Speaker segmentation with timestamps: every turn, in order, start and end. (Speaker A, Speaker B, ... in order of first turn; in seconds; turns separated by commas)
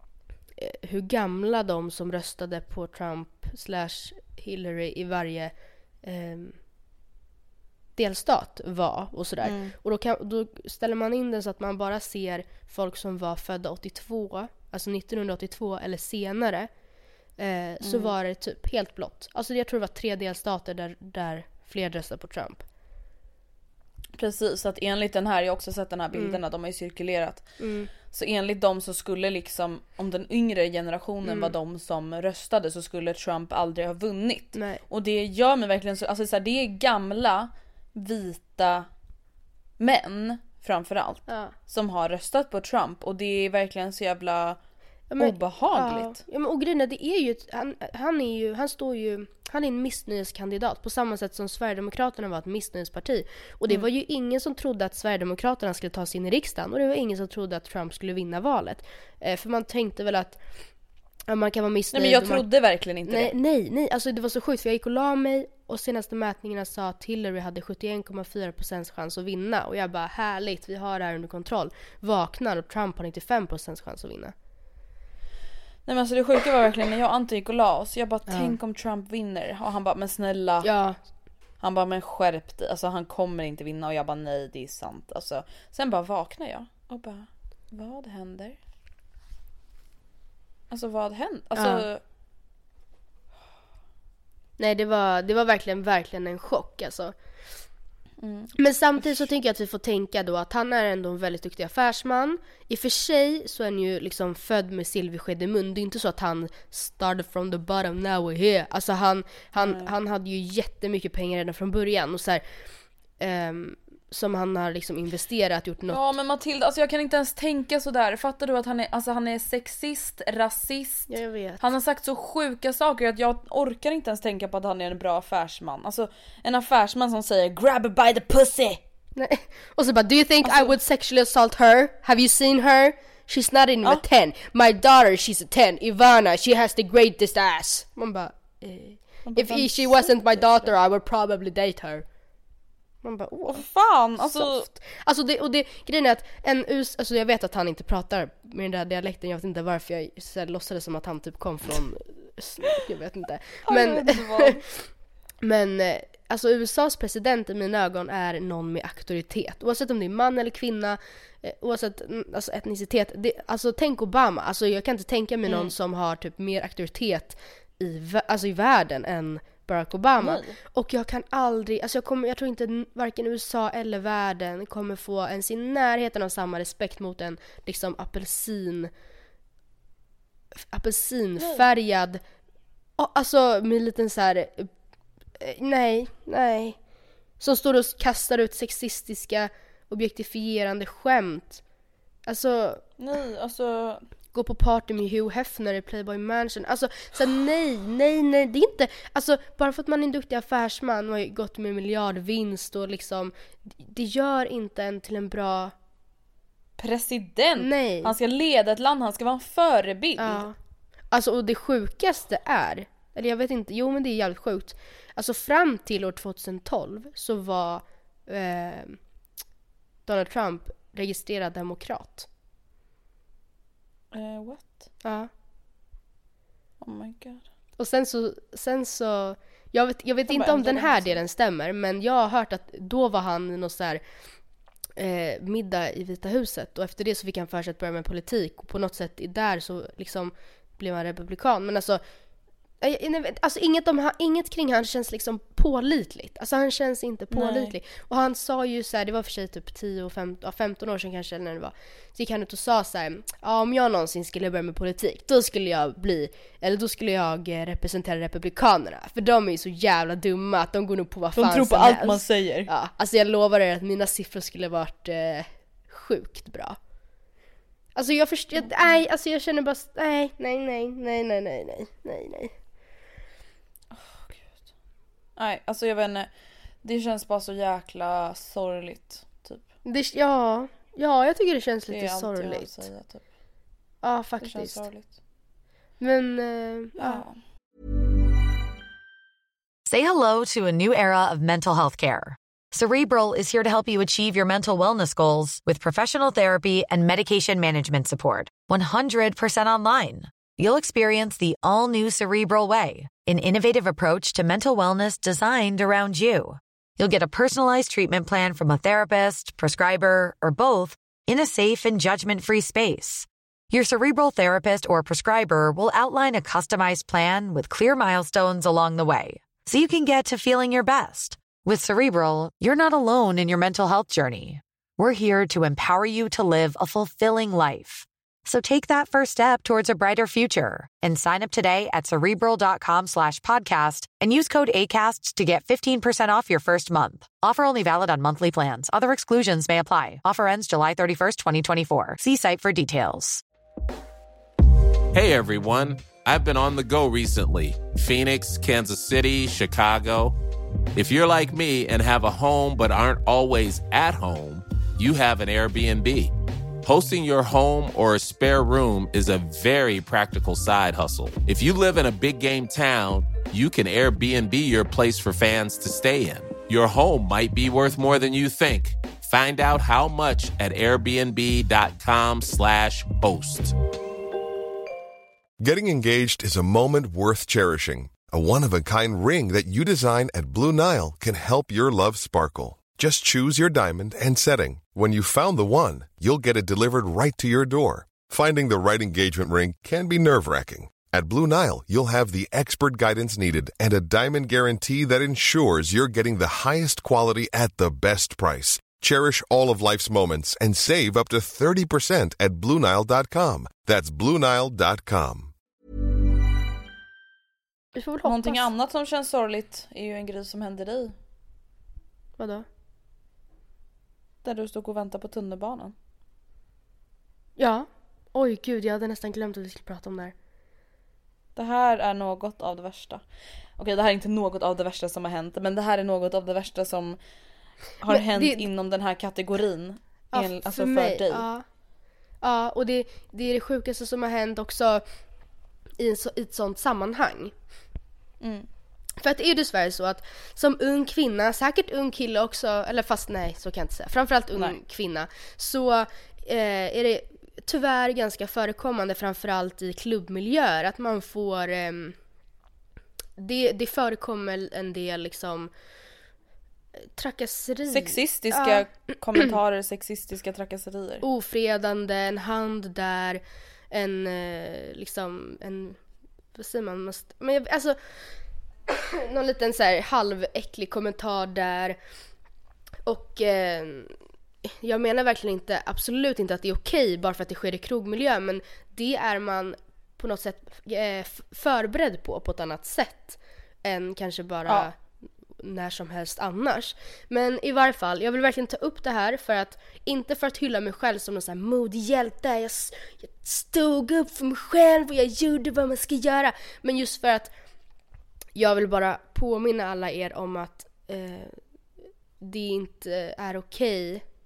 Speaker A: 0.6-6.6, Speaker A: 8.0-16.7, Speaker B: 9.4-9.7, Speaker A: 17.4-22.6, Speaker B: 17.8-18.1, Speaker B: 24.1-27.5, Speaker A: 26.1-26.4, Speaker A: 27.6-27.9, Speaker B: 28.0-38.9, Speaker A: 31.2-31.5, Speaker A: 34.5-34.8, Speaker B: 39.8-44.6, Speaker A: 41.3-41.5, Speaker A: 45.1-60.4, Speaker B: 45.2-46.2, Speaker A: 61.3-62.4, Speaker B: 61.9-63.3, Speaker A: 63.1-74.3, Speaker B: 75.8-80.7, Speaker A: 78.3-78.5, Speaker A: 80.6-81.0, Speaker B: 81.6-88.6, Speaker B: 90.7-92.0, Speaker A: 91.5-91.8, Speaker A: 94.6-97.1, Speaker B: 98.2-99.3, Speaker A: 98.6-112.4, Speaker B: 109.6-109.9, Speaker A: 113.2-116.1, Speaker B: 115.9-128.8, Speaker A: 121.1-121.6, Speaker A: 129.2-142.0, Speaker B: 130.4-130.8, Speaker B: 139.2-140.7, Speaker A: 143.0-143.7, Speaker B: 143.5-144.7, Speaker A: 144.2-154.5, Speaker B: 153.7-154.7, Speaker A: 155.4-178.9, Speaker B: 165.5-165.7, Speaker B: 170.2-170.6, Speaker A: 180.6-182.2, Speaker A: 183.0-184.7, Speaker A: 185.4-186.8, Speaker A: 187.4-191.6, Speaker A: 192.2-192.8, Speaker B: 193.0-194.0, Speaker A: 194.3-205.7, Speaker B: 206.8-210.4, Speaker A: 207.6-208.1, Speaker A: 210.2-210.5, Speaker A: 211.1-219.0, Speaker A: 220.1-222.3, Speaker B: 224.1-224.9, Speaker A: 225.0-225.3, Speaker B: 226.8-227.4, Speaker A: 227.8-234.0, Speaker B: 230.3-231.2, Speaker A: 235.0-242.0, Speaker A: 242.8-266.8, Speaker B: 247.3-247.7, Speaker B: 261.4-262.7, Speaker A: 267.9-272.5, Speaker B: 268.6-269.0, Speaker B: 273.9-274.6, Speaker B: 275.4-276.3, Speaker B: 276.8-279.6, Speaker A: 279.9-282.8, Speaker B: 281.9-283.2, Speaker A: 284.0-284.8, Speaker B: 284.4-285.1, Speaker A: 286.0-287.2, Speaker B: 287.0-287.4, Speaker C: 289.9-343.4, Speaker D: 345.1-350.4, Speaker D: 350.9-356.3, Speaker D: 356.8-373.7, Speaker E: 375.6-405.5, Speaker A: 407.9-408.6, Speaker B: 408.2-411.1, Speaker A: 412.4-412.6, Speaker B: 414.4-415.9, Speaker A: 417.6-420.3, Speaker B: 421.6-423.2, Speaker B: 423.8-427.2, Speaker B: 428.0-431.4, Speaker A: 428.1-428.6, Speaker A: 430.3-431.6, Speaker A: 432.4-435.0, Speaker A: 436.0-437.5, Speaker B: 438.4-438.7, Speaker A: 439.2-452.1, Speaker A: 453.4-455.7, Speaker A: 457.1-458.8, Speaker B: 457.9-461.2, Speaker A: 461.2-463.4, Speaker A: 463.9-466.0, Speaker A: 466.6-468.0, Speaker A: 468.9-472.0, Speaker A: 473.1-484.9, Speaker A: 485.6-497.5, Speaker A: 498.5-501.6, Speaker A: 502.4-504.2